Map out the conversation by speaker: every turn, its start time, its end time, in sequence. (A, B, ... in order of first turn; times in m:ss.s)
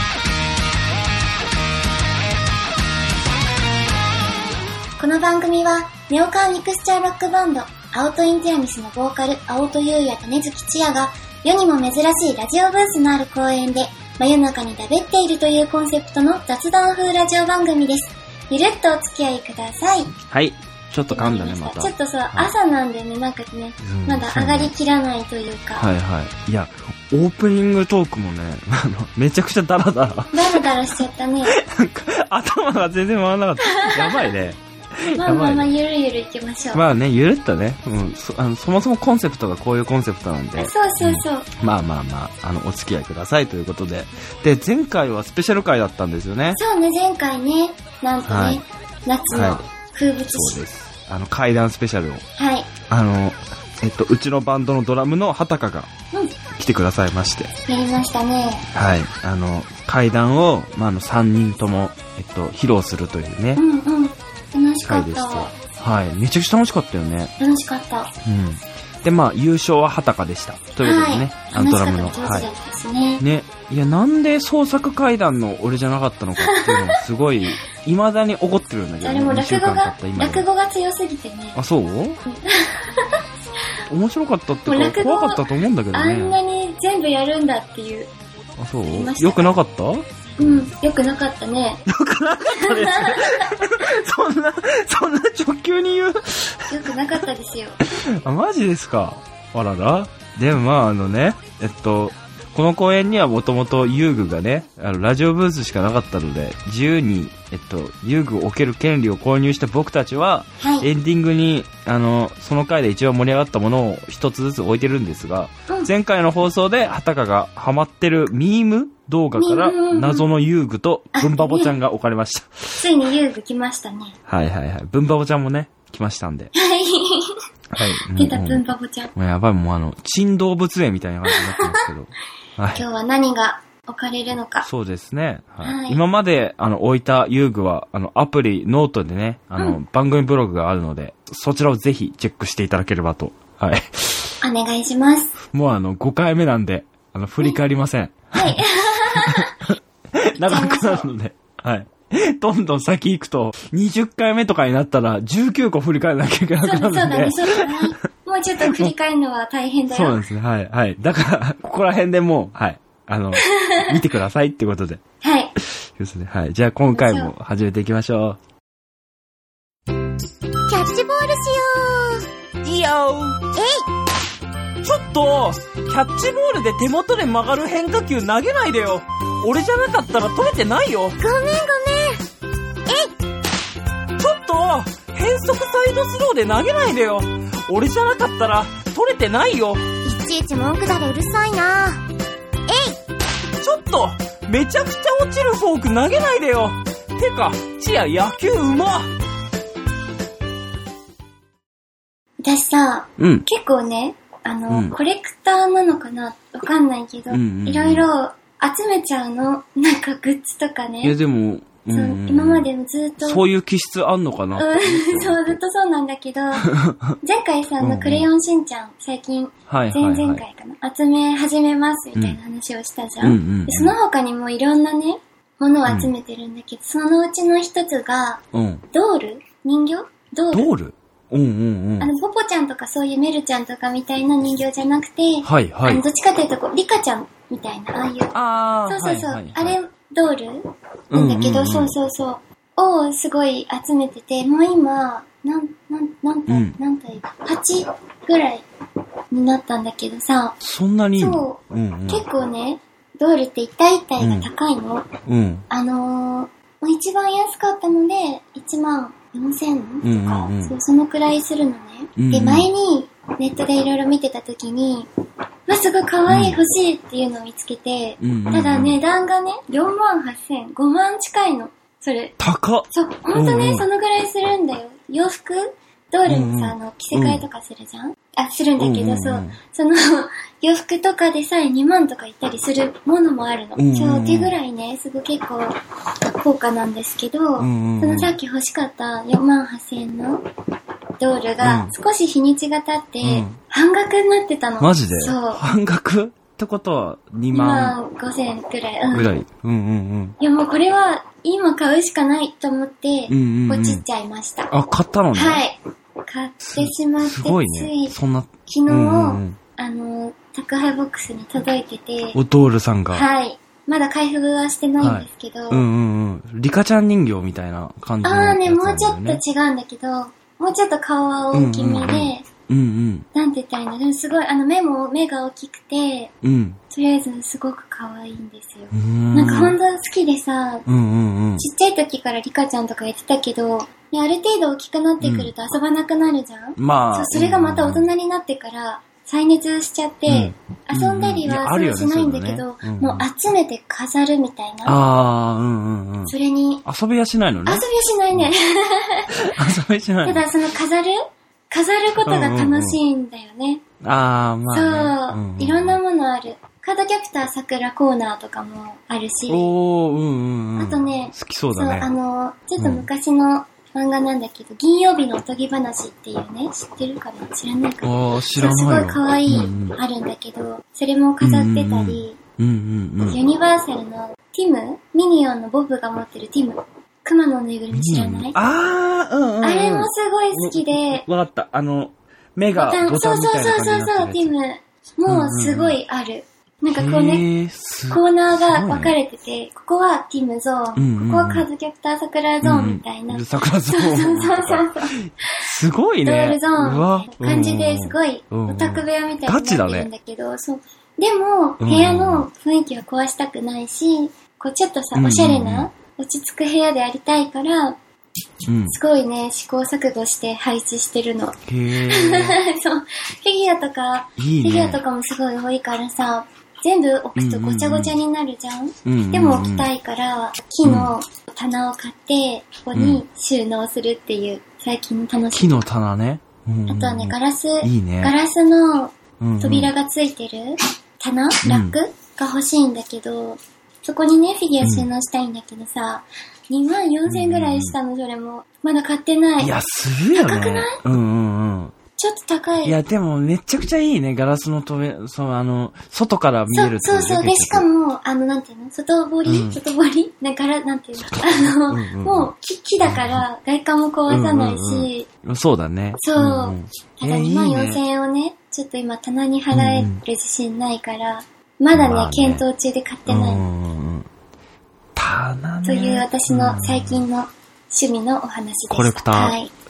0:05.0-0:20.2 A
0:20.3-0:22.5 B
0:21.1-0:25.9 A
0:23.8-0:24.7 B
0:25.8-0:35.7 B
0:30.3-0:31.5 A
0:33.8-0:34.3 A
0:35.2-0:36.8 A
0:36.7-0:46.6 B
0:40.6-0:41.5 A
0:46.6-0:50.6 A
0:48.3-0:48.6 B
0:49.3-0:49.6 B
0:50.3-0:52.2 B
0:52.4-0:52.7 A
0:52.9-0:55.9 B
0:56.6-0:57.5 B
0:57.7-0:58.7 A
0:58.7-1:03.6 B
1:03.6-1:05.5 A
1:04.8-1:07.3 B
1:07.4-1:08.1 A
1:08.2-1:12.5 B
1:10.8-1:13.2 A
1:13.2-1:20.5 B
1:16.4-1:17.0 A
1:19.0-1:21.6 A
1:21.6-1:22.2 B
1:22.3-1:23.2 A
1:23.9-1:26.4 B
1:24.7-1:28.1 A
1:28.6-1:30.0 B
1:28.9-1:29.6 A
1:30.4-1:31.8 A
1:31.9-1:36.8 B
1:32.5-1:33.6 A
1:36.7-1:37.8 A
1:37.8-2:02.9 B
1:50.6-1:50.9 A
1:59.4-2:00.3 A
2:01.1-2:01.7 A
2:02.8-2:04.2 A
2:04.3-2:06.5 B
2:06.6-2:09.1 A
2:07.7-2:08.6 B
2:09.2-2:12.8 B
2:11.3-2:11.8 A
2:12.8-2:14.7 A
2:14.6-2:24.4 B
2:15.6-2:16.0 A
2:24.4-2:25.3 A
2:25.4-2:38.0 B
2:28.3-2:29.6 A
2:30.5-2:31.1 A
2:36.6-2:40.2 A
2:38.6-2:38.9 B
2:39.9-2:45.0 B
2:43.4-2:44.0 A
2:45.2-2:45.6 A
2:45.6-2:48.4 B
2:46.9-2:47.3 A
2:50.9-2:51.9 C
2:52.6-2:53.5 B
2:54.8-3:01.2 B
3:01.2-3:02.1 A
3:01.5-3:01.8 C
3:04.2-3:09.9 B
3:10.0-3:11.9 A
3:10.3-3:11.8 C
3:13.6-3:19.1 B
3:22.4-3:31.2 A
3:23.2-3:23.5 B
3:24.7-3:25.0 B
3:27.3-3:28.1 B
3:31.0-3:32.7 B
3:31.9-3:33.4 A
3:33.2-3:35.6 B
3:34.6-3:50.7 A
3:36.6-3:37.2 B
3:37.8-3:38.3 B
3:39.7-3:40.4 B
3:43.2-3:44.0 B
3:45.9-3:46.1 B
3:48.5-3:48.8 B
3:50.5-3:52.1 B
3:52.0-3:58.4 A
3:55.4-3:56.0 B
3:58.3-3:59.8 B
3:58.9-4:08.6 A
4:01.1-4:02.0 B
4:06.5-4:06.8 B
4:09.3-4:10.6 A
4:10.6-4:12.3 B
4:11.2-4:15.1 A
4:14.2-4:14.5 B
4:15.3-4:15.7 B
4:15.7-4:25.1 A
4:20.0-4:20.8 B
4:22.2-4:22.7 B
4:25.7-4:32.4 A
4:26.3-4:26.6 B
4:28.2-4:29.0 B
4:32.4-4:33.9 B
4:32.9-4:50.4 A
4:36.3-4:37.4 B
4:38.8-4:39.6 B
4:43.8-4:44.6 B
4:47.6-4:48.4 B
4:51.2-4:55.6 A
4:51.6-4:52.0 B
4:53.2-4:53.6 B
4:54.8-4:58.0 B
4:57.5-4:59.3 A
4:59.1-5:00.4 B
5:00.4-5:04.7 A
5:03.3-5:04.0 B
5:04.7-5:05.6 B
5:05.3-5:08.1 A
5:06.6-5:09.6 B
5:08.7-5:12.4 A
5:12.3-5:13.3 B
5:13.1-5:15.8 A
5:15.0-5:19.4 B
5:18.2-5:22.5 A
5:21.5-5:23.3 B
5:23.3-5:26.3 A
5:26.4-5:26.8 B
5:26.9-5:30.9 A
5:28.9-5:29.8 B
5:30.9-5:31.7 B
5:31.6-5:45.0 A
5:35.2-5:35.5 B
5:36.8-5:38.1 B
5:40.3-5:43.3 B
5:44.8-5:48.5 B
5:46.3-5:46.8 A
5:47.7-5:49.3 A
5:49.4-5:50.5 B
5:50.2-5:51.2 A
5:51.7-5:53.8 A
5:52.2-5:53.0 B
5:54.0-5:56.0 B
5:54.7-5:59.7 A
5:59.5-6:02.1 B
6:00.8-6:12.4 A
6:02.8-6:03.1 B
6:08.0-6:10.0 B
6:11.4-6:13.4 B
6:13.3-6:18.6 A
6:17.9-6:24.5 B
6:19.6-6:21.2 A
6:22.7-6:27.4 A
6:25.3-6:26.0 B
6:26.9-6:29.2 B
6:28.1-6:35.5 A
6:31.0-6:31.7 B
6:32.6-6:40.1 B
6:36.2-6:48.0 A
6:41.8-6:42.5 B
6:45.2-6:45.9 B
6:48.7-6:49.0 B
6:48.9-7:05.8 A
6:51.6-6:52.6 B
6:54.4-6:55.0 B
6:57.4-6:58.2 B
6:59.0-6:59.9 B
7:00.8-7:01.1 B
7:02.9-7:03.2 B
7:05.5-7:08.4 B
7:06.9-7:19.7 A
7:09.4-7:09.9 B
7:11.6-7:12.0 B
7:14.8-7:15.1 B
7:17.3-7:18.0 B
7:19.6-7:21.9 B
7:20.4-7:21.0 A
7:22.2-7:23.0 A
7:22.8-7:27.9 B
7:26.7-7:35.3 A
7:29.5-7:29.8 B
7:31.2-7:33.4 B
7:34.3-7:38.0 B
7:36.2-7:43.6 A
7:39.7-7:40.2 B
7:41.9-7:42.6 B
7:43.3-7:44.3 B
7:45.2-7:47.3 B
7:45.8-7:49.7 A
7:48.9-7:49.6 B